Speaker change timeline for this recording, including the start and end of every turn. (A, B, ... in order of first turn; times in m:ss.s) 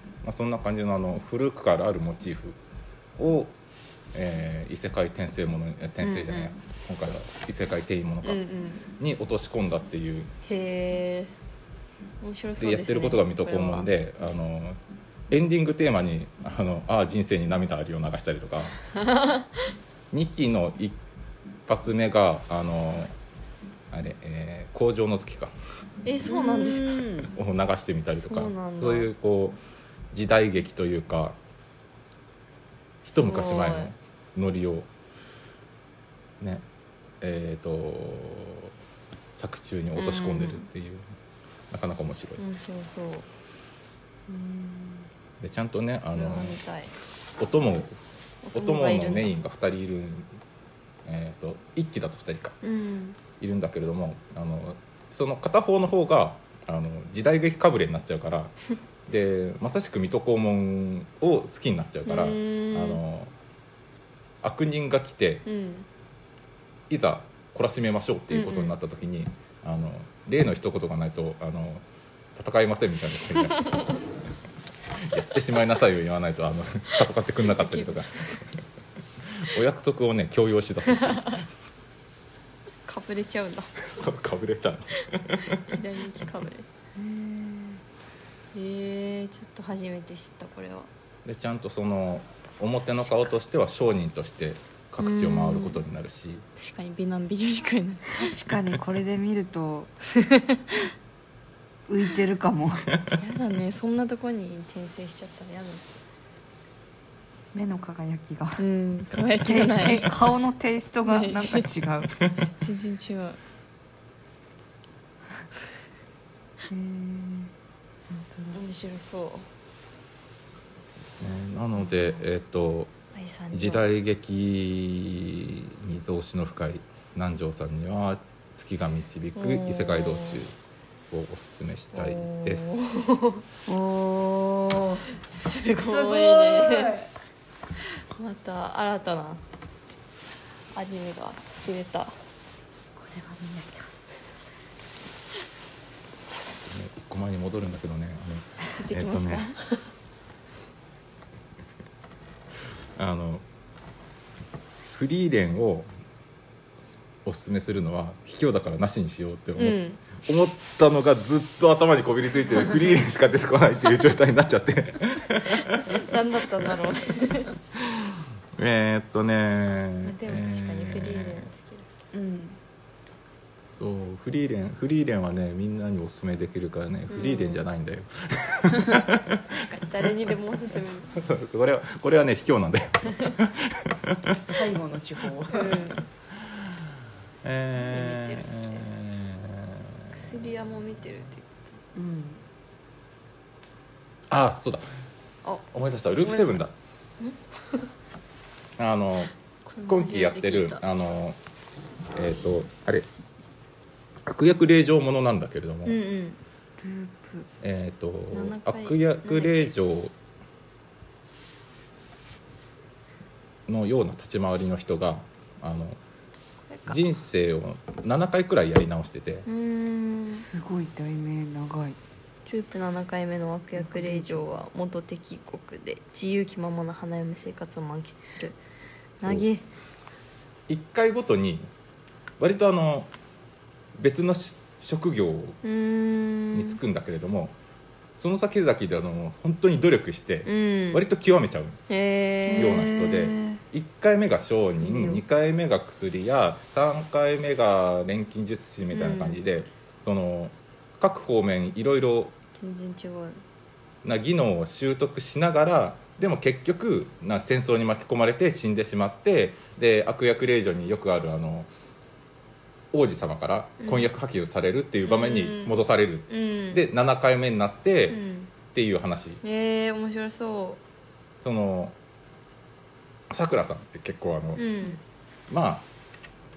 0:00.2-0:02.6 A
0:03.2-0:03.6 A
0:04.1-0:08.4 A
0:06.0-0:06.5 B
0:08.2-0:08.9 B
0:09.0-0:10.3 A
0:10.4-0:11.3 B
0:12.2-0:13.9 B
0:12.6-0:18.8 A
0:19.0-0:19.5 B
0:20.1-0:21.0 A
0:21.7-0:23.1 A
0:23.9-0:25.6 A
0:26.0-0:27.1 B
0:26.3-0:27.3 C
0:27.3-0:29.6 A
0:28.1-0:29.1 B
0:30.1-0:31.4 A
0:33.0-0:33.9 B
0:33.1-0:34.9 A
0:36.4-0:36.6 A
0:37.2-0:38.7 A
0:39.4-0:41.0 A
0:40.0-0:40.7 B
0:41.7-0:42.4 A
0:42.4-0:43.3 B
0:44.3-0:45.1 C
0:45.4-0:46.6 A
0:45.8-0:46.9 B
0:47.4-0:48.0 A
0:48.4-0:49.4 B
0:48.6-0:50.3 A
0:51.0-0:52.6 A
0:52.6-0:53.2 B
0:53.4-0:58.5 A
0:59.1-1:03.3 A
1:02.1-1:03.0 B
1:04.4-1:05.4 A
1:05.5-1:05.9 B
1:06.9-1:11.8 A
1:08.3-1:08.7 B
1:12.4-1:13.9 A
1:13.5-1:14.0 B
1:15.0-1:18.6 A
1:17.4-1:18.4 B
1:19.4-1:21.4 A
1:21.0-1:21.4 B
1:22.9-1:23.8 B
1:23.8-1:25.8 A
1:25.4-1:26.7 B
1:27.0-1:27.8 C
1:28.5-1:30.9 B
1:31.2-1:36.4 A
1:35.0-1:35.8 B
1:36.6-1:38.3 B
1:38.1-1:39.9 C
1:40.3-1:40.8 B
1:41.9-1:42.9 C
1:43.2-1:45.8 B
1:47.5-1:48.6 C
1:48.6-1:50.2 B
1:49.4-1:52.1 C
1:51.1-1:51.7 B
1:52.6-1:53.4 B
1:56.7-1:57.5 C
1:58.1-1:58.6 C
1:58.5-1:59.5 B
2:01.0-2:02.9 A
2:03.1-2:03.9 B
2:03.5-2:10.6 A
2:09.4-2:10.4 B
2:11.1-2:12.8 A
2:11.9-2:13.4 B
2:13.7-2:15.1 C
2:15.2-2:17.0 B
2:15.8-2:17.1 C
2:18.1-2:19.4 B
2:20.8-2:22.1 B
2:23.0-2:23.9 C
2:26.6-2:29.5 A
2:28.8-2:29.8 B
2:33.0-2:33.4 A
2:34.9-2:35.9 A
2:36.8-2:46.0 A
2:39.6-2:40.0 B
2:45.8-2:47.5 B
2:47.8-2:51.5 A
2:50.0-2:51.9 B
2:52.1-2:52.6 C
2:53.8-2:59.4 A
2:57.1-2:57.6 B
2:59.5-3:01.2 B
3:00.8-3:04.5 A
3:04.5-3:05.9 C
3:05.5-3:06.0 B
3:06.4-3:06.8 A
3:07.4-3:10.2 A
3:07.8-3:08.9 B
3:10.1-3:11.8 B
3:12.0-3:12.4 C
3:14.3-3:14.9 A
3:15.7-3:16.7 A
3:16.2-3:16.6 B
3:17.2-3:17.9 B
3:18.8-3:19.3 A
3:19.7-3:20.8 B
3:19.9-3:21.4 A
3:22.1-3:23.1 A
3:24.2-3:26.0 A
3:25.8-3:26.4 B
3:26.8-3:27.5 C
3:27.6-3:30.2 A
3:28.3-3:29.7 B
3:33.7-3:36.0 A
3:36.7-3:37.0 C
3:36.9-3:39.5 A
3:39.5-3:40.4 B
3:40.3-3:42.0 C
3:42.5-3:48.6 B
3:43.8-3:44.6 C
3:49.2-3:49.6 B
3:49.2-3:49.5 A
3:50.7-3:51.7 A
3:52.4-3:53.1 A
3:54.0-3:55.6 A
3:55.6-3:56.8 B
3:56.5-3:57.6 A
3:58.2-4:01.8 A
4:00.5-4:01.0 B
4:01.9-4:03.3 B
4:02.5-4:03.6 C
4:02.6-4:12.4 A
4:08.9-4:09.4 B
4:12.6-4:13.4 B
4:14.0-4:21.7 A
4:22.9-4:29.4 A
4:23.8-4:24.1 B
4:25.0-4:25.7 B
4:26.3-4:26.8 B
4:28.1-4:28.5 B
4:29.4-4:30.8 B
4:31.4-4:32.0 A
4:33.3-4:34.7 A
4:34.6-4:35.0 B
4:35.5-4:35.9 A